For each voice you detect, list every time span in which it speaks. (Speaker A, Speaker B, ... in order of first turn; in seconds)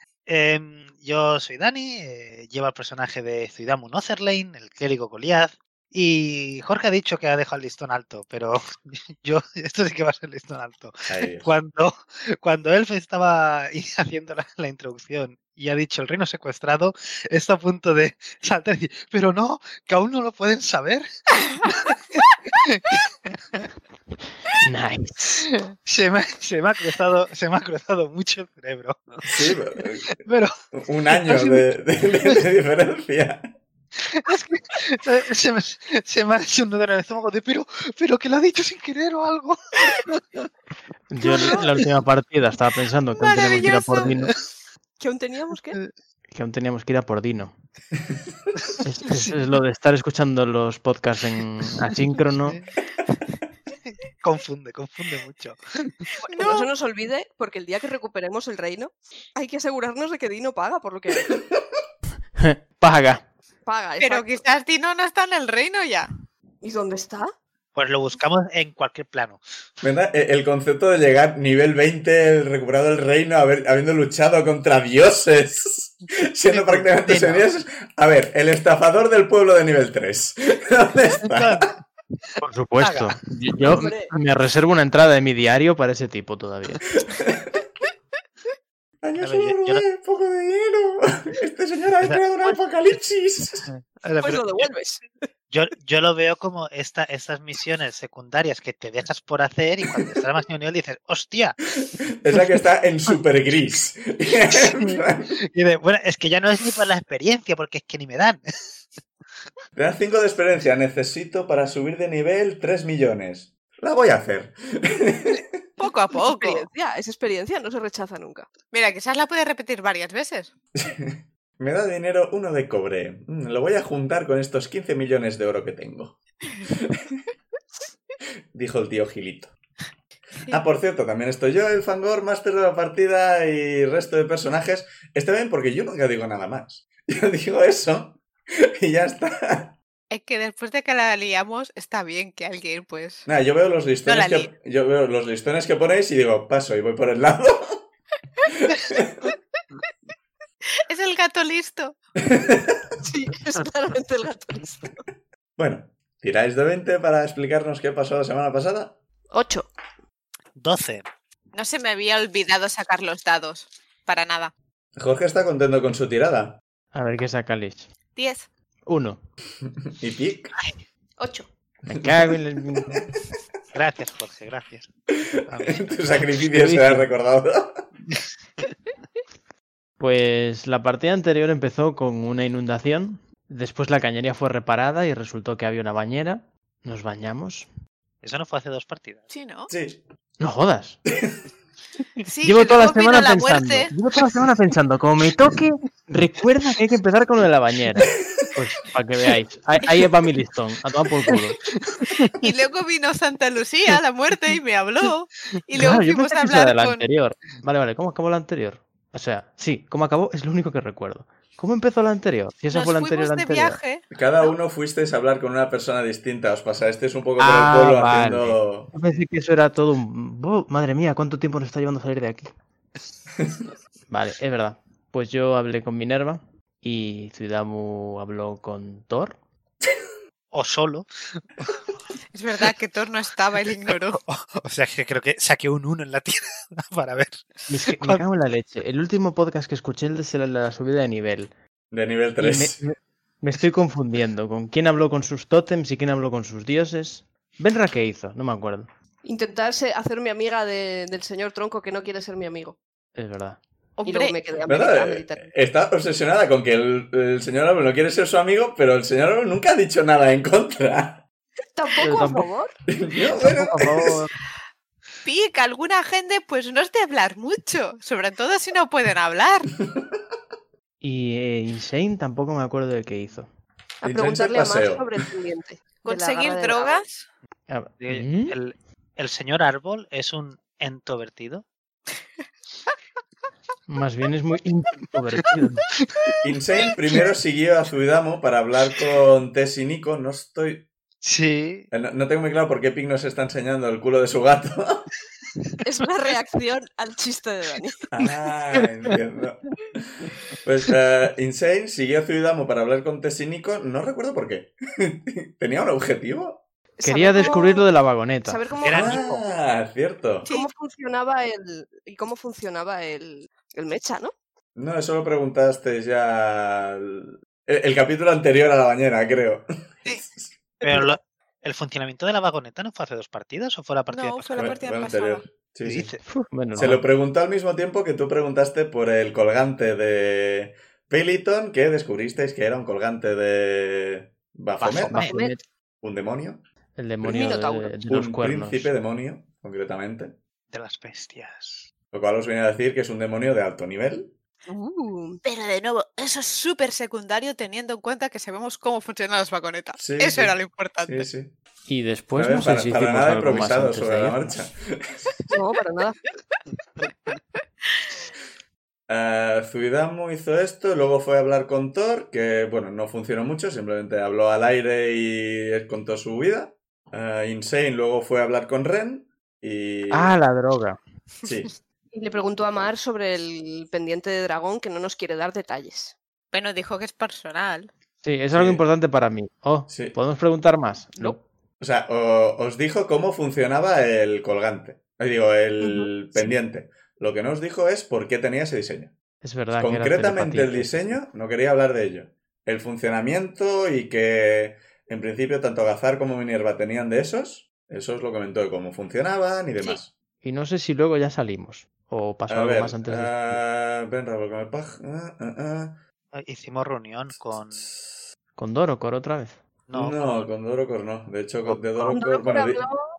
Speaker A: 0.3-8.6, 9.2-21.1, 21.6-23.6, 25.4-30.5, 31.1-31.6, 34.0-40.4, 41.2-41.9, 48.7-49.2, 53.9-56.1, 67.8-69.4, 76.5-77.5, 81.2-81.8, 82.8-83.9, 89.2-89.8, 93.7-94.6, 95.5-101.6, 104.5-108.4, 160.6-161.1, 173.7-174.9, 175.5-175.8, 188.2-189.3, 201.3-202.5, 230.5-231.8, 233.9-238.2, 278.0-281.6, 286.0-286.3, 291.2-291.9, 298.8-299.1, 308.8-309.4, 320.8-324.7, 325.8-326.2, 334.8-335.1, 340.7-341.9, 406.3-407.9, 409.9-410.5, 411.7-412.1
Speaker B: 11.1-11.5, 29.3-30.2, 30.7-33.5, 69.8-81.7, 87.0-87.5, 89.0-93.7, 101.8-105.4, 109.8-115.6, 120.8-127.2, 128.5-129.5, 130.5-139.8, 143.3-147.8, 148.5-149.3, 152.2-152.8, 155.6-159.0, 165.0-166.6, 169.8-170.6, 171.9-172.2, 175.1-177.8, 189.7-190.0, 214.1-218.9, 241.9-242.8, 254.7-261.2, 262.9-264.1, 274.0-275.1, 286.4-290.9, 291.9-295.1, 298.1-306.6, 308.9-310.5, 314.8-320.5, 324.6-326.1, 326.8-335.3, 336.0-336.6, 338.1-340.4, 342.1-344.3, 350.0-351.6, 352.4-355.3, 359.1-370.4, 371.4-371.7, 378.6-378.8, 379.9-380.2, 381.8-389.1, 389.8-400.1, 402.5-406.0, 407.5-408.2, 409.9-412.9
Speaker C: 24.6-25.4, 41.1-44.3, 46.3-47.5, 48.8-52.6, 62.4-63.2, 82.4-87.0, 166.9-167.9, 168.9-169.2, 171.9-173.1, 176.5-177.1, 180.0-187.7, 190.4-191.0, 192.4-201.6, 205.8-213.8, 217.4-222.5, 224.1-229.4, 237.7-241.5, 242.4-248.9, 253.2-253.6, 262.0-262.5, 263.1-264.3, 271.0-273.5, 277.7-278.6, 283.9-285.9, 307.0-308.6, 326.3-327.0, 335.1-335.6, 337.0-338.9, 351.9-354.5, 370.1-371.0, 378.2-381.4, 389.4-391.2, 400.4-403.6, 408.6-409.6
Speaker D: 43.2-44.2, 56.3-56.7, 64.0-66.1, 115.8-116.7, 118.7-120.5, 140.1-143.3, 144.1-144.5, 150.9-151.9, 161.5-164.5, 168.2-168.5, 189.3-189.7, 192.3-193.9, 202.4-207.0, 212.7-214.5, 232.3-234.2, 254.0-254.4, 265.2-269.7, 276.0-277.3, 324.1-325.5, 345.4-351.3, 376.5-377.9
Speaker E: 45.0-45.8, 56.3-61.4, 63.7-64.3, 66.6-67.3, 83.7-84.1, 94.2-95.1, 116.1-118.5, 153.0-155.0, 159.3-159.7, 171.2-171.5, 249.2-252.8, 254.1-255.5, 261.7-262.8, 274.0-277.0, 295.8-298.0, 307.0-307.9, 308.4-309.2, 310.5-314.3, 335.1-335.6, 337.2-337.9, 344.7-345.4, 355.5-356.2, 372.1-376.1, 385.8-386.5, 412.1-413.0